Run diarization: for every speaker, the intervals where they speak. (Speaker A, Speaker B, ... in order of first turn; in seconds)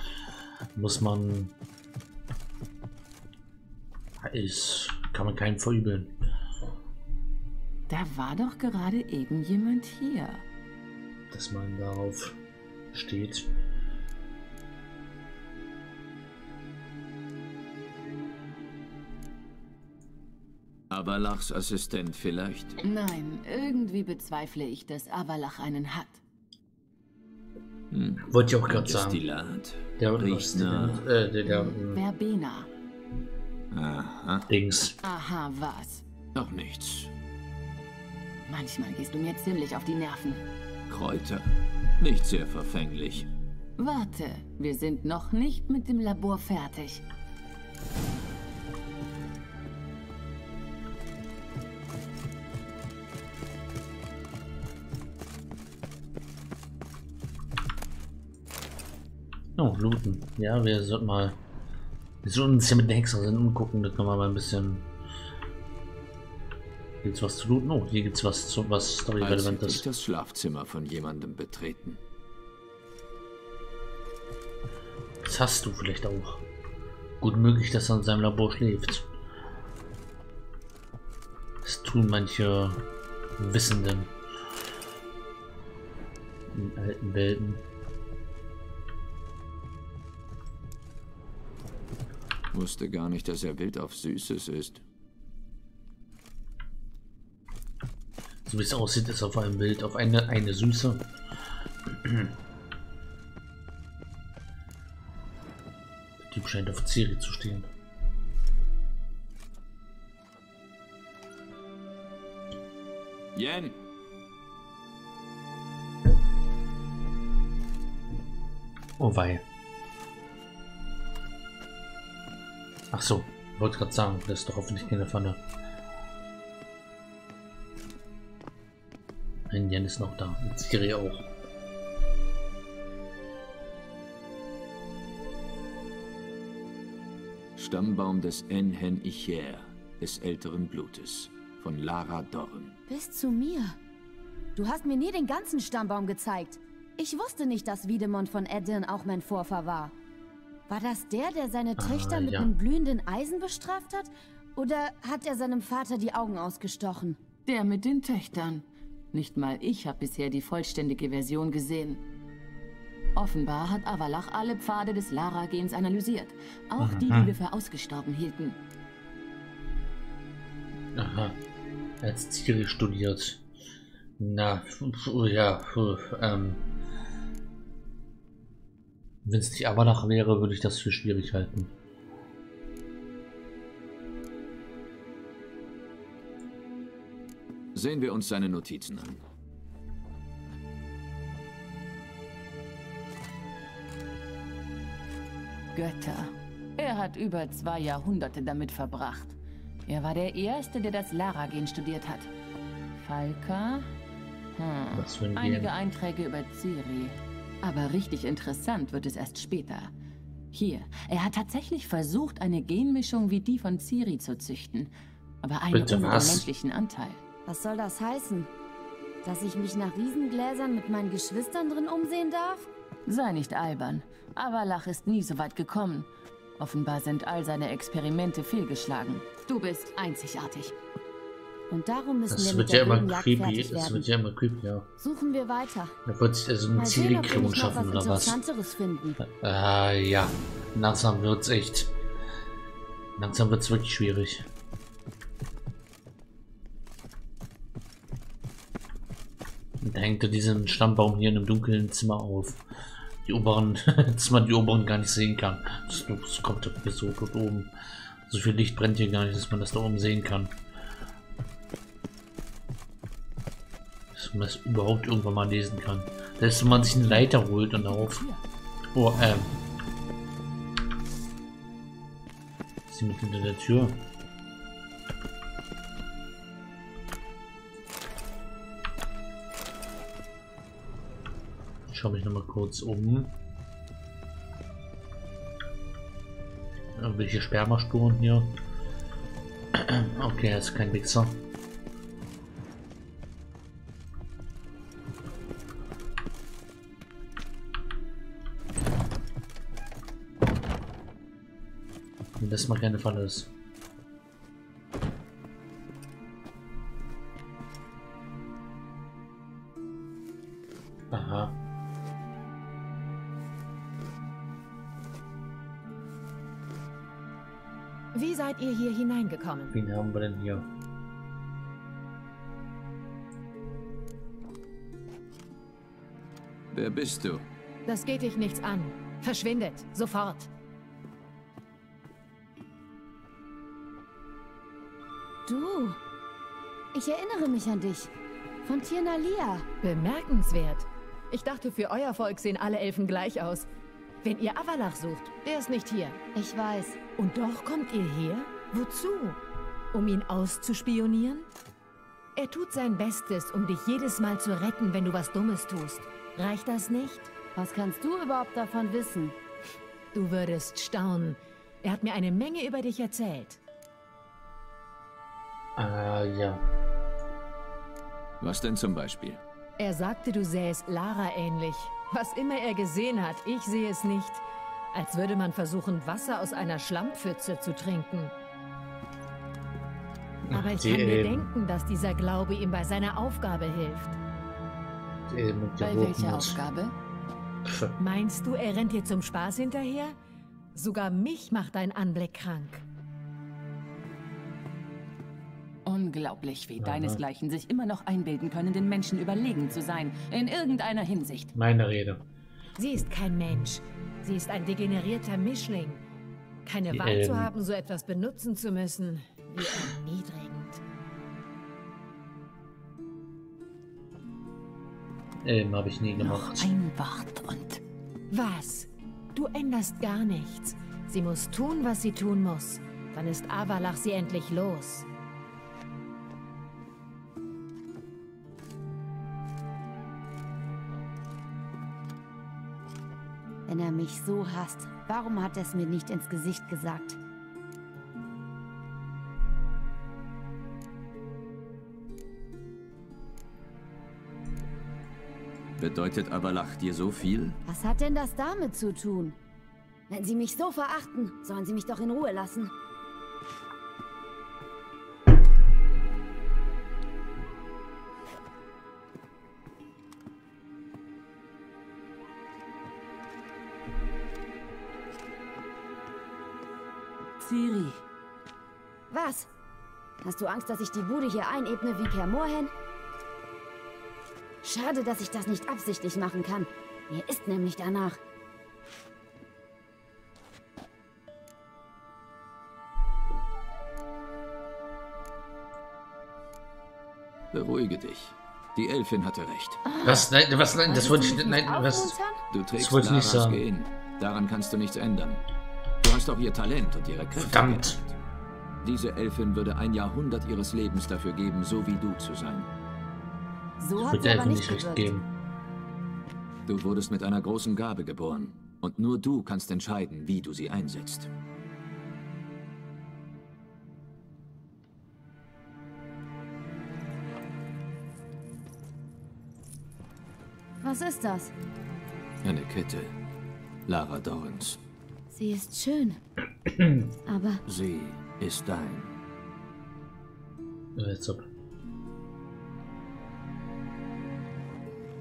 Speaker A: 0.8-1.5, 4.2-6.1, 11.3-12.4, 12.9-13.5, 28.3-29.2, 30.0-32.0, 34.5-35.0, 59.6-61.4, 62.2-64.9, 67.0-69.8, 75.2-76.4, 77.2-79.1, 81.6-82.8, 83.4-84.1, 86.5-87.6, 98.5-101.1, 101.9-102.3, 106.2-107.7, 119.0-119.5, 122.9-125.4, 129.5-131.3, 151.8-152.5, 166.8-167.3, 170.9-171.4, 172.0-173.4, 174.2-176.6, 179.2-181.7, 204.9-205.7, 215.7-216.5, 232.3-234.9, 236.1-238.4, 239.2-241.9, 243.2-244.5, 249.8-252.6, 253.2-257.7, 258.3-260.6, 264.1-268.2, 268.9-269.5, 272.9-274.1, 281.9-283.3, 287.0-288.6, 289.7-291.4, 302.4-303.5, 311.1-311.6, 319.7-320.7, 365.8-366.6, 380.5-381.5, 385.3-386.6, 387.6-387.9, 396.8-397.2, 401.6-402.2, 406.9-407.5, 415.4-416.7, 490.0-492.2, 492.8-493.6, 497.4-498.0, 504.0-505.3, 526.7-527.1, 531.0-531.4
Speaker B: 7.9-10.4, 22.8-26.2, 31.5-32.7, 35.0-36.0, 38.5-40.5, 43.8-47.0, 157.5-162.0, 163.2-168.6, 195.7-202.3, 203.0-203.9, 204.6-209.9, 210.5-214.9, 215.4-217.2, 223.1-230.7, 266.7-268.4, 385.8-386.9, 395.9-401.5, 416.2-417.8, 467.4-468.0, 489.9-490.3
Speaker C: 20.9-22.8, 27.9-31.1, 33.7-34.5, 36.3-37.1, 40.9-43.3, 69.2-72.0, 92.5-94.8, 113.3-113.8, 137.6-142.8, 187.7-189.2, 326.7-327.4, 368.4-369.4, 445.8-447.6, 487.5-489.8, 492.5-495.4, 496.0-498.1, 498.8-502.7, 506.7-511.3, 522.4-523.1, 523.9-524.8, 527.7-529.1
Speaker D: 142.9-143.8, 144.6-149.9, 150.7-157.2, 217.5-218.5, 219.2-222.7, 231.7-234.1, 235.0-235.9, 236.8-239.2, 335.5-336.0, 336.9-338.1, 338.6-339.6, 346.4-347.0, 357.6-359.4, 433.7-437.2, 447.7-449.4, 450.1-452.7, 469.1-469.5, 470.2-472.7, 474.6-478.2, 490.9-492.4, 503.8-505.1, 520.8-521.5, 525.3-526.2, 527.3-527.6
Speaker E: 318.1-319.8, 327.9-330.5, 339.8-343.7, 344.2-346.2, 347.2-349.4, 349.9-351.5, 352.4-357.3, 360.1-363.6, 369.8-378.3, 380.5-384.2, 388.0-390.1, 390.7-392.8, 402.8-406.0, 406.6-410.8, 418.3-425.1